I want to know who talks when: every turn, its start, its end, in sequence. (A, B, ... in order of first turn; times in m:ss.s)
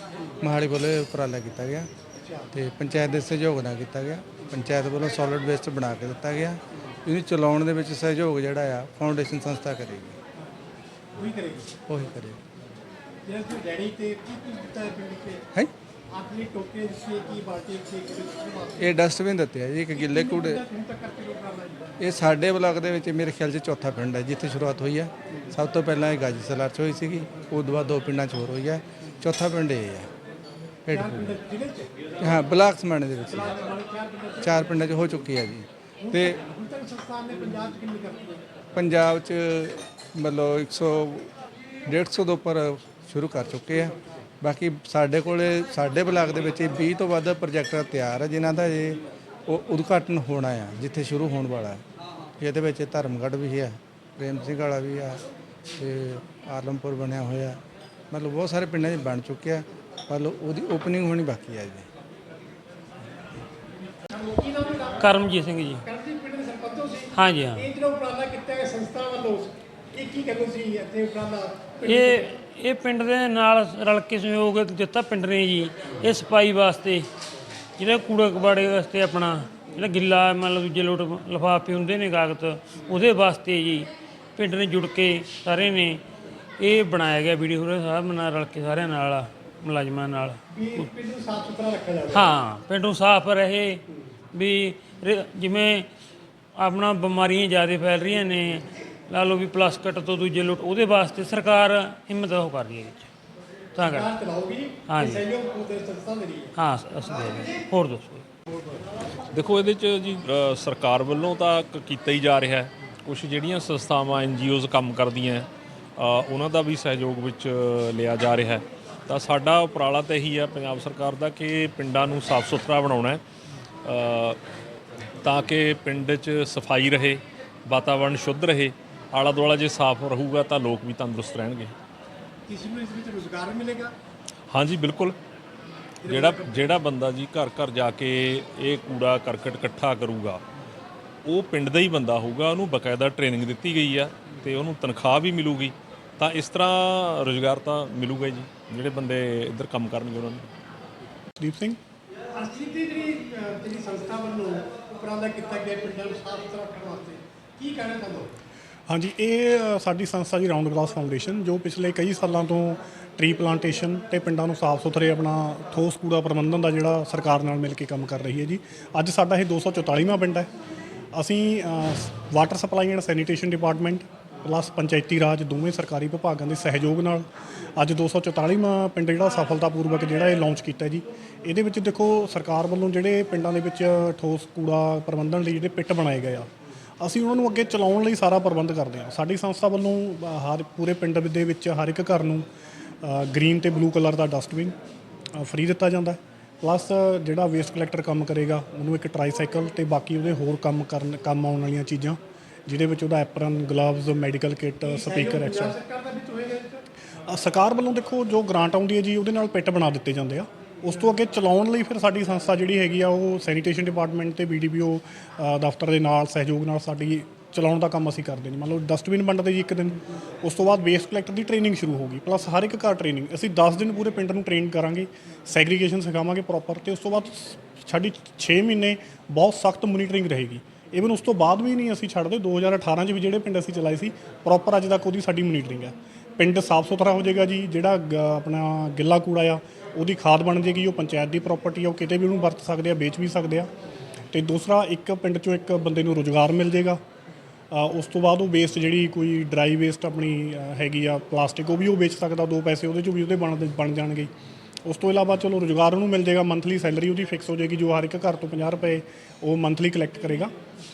0:00.4-0:01.9 A
0:02.2-0:02.5 B
0:02.5-0:10.2 A
0:11.2-0:11.7 B
0:11.9-0:12.4 A
0:13.2-0:15.4 B
0:16.1-0:19.0 B
0:18.8-0:20.6 A
0:20.0-0:21.9 B
0:22.0-0:30.1 A
0:30.9-0:31.4 A
0:30.9-0:31.9 B
0:32.2-0:33.6 A
0:33.3-0:34.5 B
0:34.4-0:36.4 A
0:36.0-0:38.4 B
0:38.8-0:41.3 A
0:41.9-0:51.8 A
0:52.4-0:55.2 A
0:55.8-0:57.6 A
0:58.1-1:01.9 A
1:04.1-1:05.2 B
1:05.0-1:05.8 C
1:05.8-1:12.3 B
1:07.1-1:07.7 C
1:11.8-1:17.1 C
1:17.8-1:26.0 C
1:26.6-1:30.4 C
1:30.5-1:32.3 B
1:32.1-1:33.8 C
1:34.3-1:35.9 C
1:36.6-1:43.1 C
1:43.8-1:44.1 C
1:43.8-1:46.5 B
1:44.9-1:45.3 C
1:46.6-1:48.2 C
1:49.3-2:03.2 D
2:03.8-2:04.4 D
2:05.2-2:11.7 D
2:12.5-2:13.9 B
2:14.5-2:15.2 D
2:16.0-2:16.8 B
2:16.0-2:20.4 D
2:21.3-2:30.5 D
2:31.4-2:31.8 E
2:32.3-2:38.3 B
2:38.9-2:50.5 E
2:51.1-3:12.5 E
3:13.0-3:14.7 E
3:15.4-3:25.8 E
3:24.8-3:26.8 B
3:27.3-4:03.7 E
4:04.3-4:07.0 E
4:07.7-4:14.3 E
4:14.8-4:20.5 E